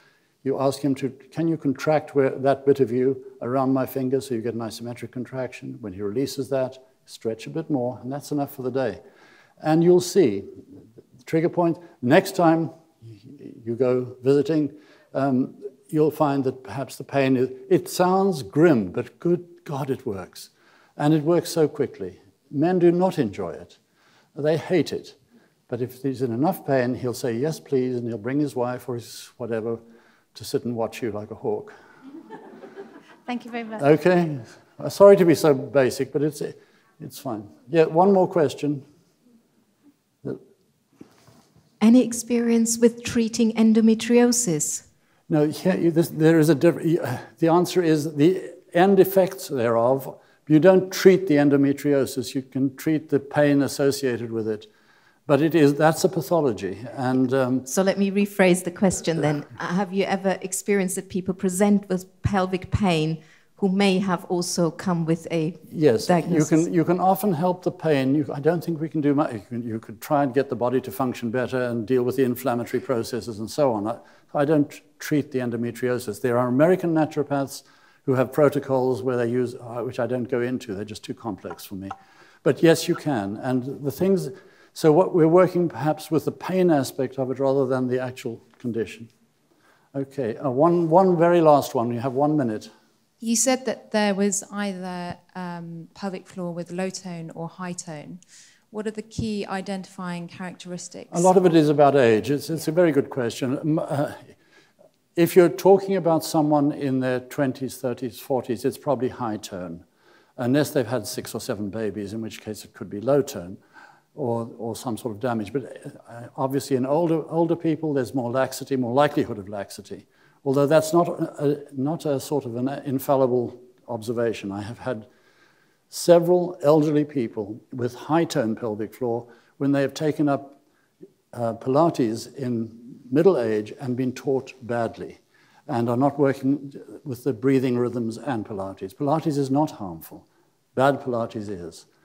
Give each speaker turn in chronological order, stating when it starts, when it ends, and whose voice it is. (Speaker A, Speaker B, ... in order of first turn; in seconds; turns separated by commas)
Speaker A: 0.4-9.0, Speaker A: 9.6-10.6, Speaker A: 11.2-23.8, Speaker A: 24.3-25.2, Speaker A: 25.7-29.8, Speaker A: 30.3-31.8, Speaker B: 33.3-33.8, Speaker A: 33.8-38.8, Speaker C: 41.8-44.8, Speaker A: 45.3-54.7, Speaker A: 55.3-57.7, Speaker C: 57.7-66.6, Speaker A: 65.7-89.1, Speaker A: 89.9-92.7, Speaker B: 93.2-101.5, Speaker A: 101.1-104.3, Speaker A: 105.2-109.8, Speaker A: 110.4-113.6, Speaker A: 114.1-125.1, Speaker A: 125.9-130.6, Speaker A: 131.3-141.9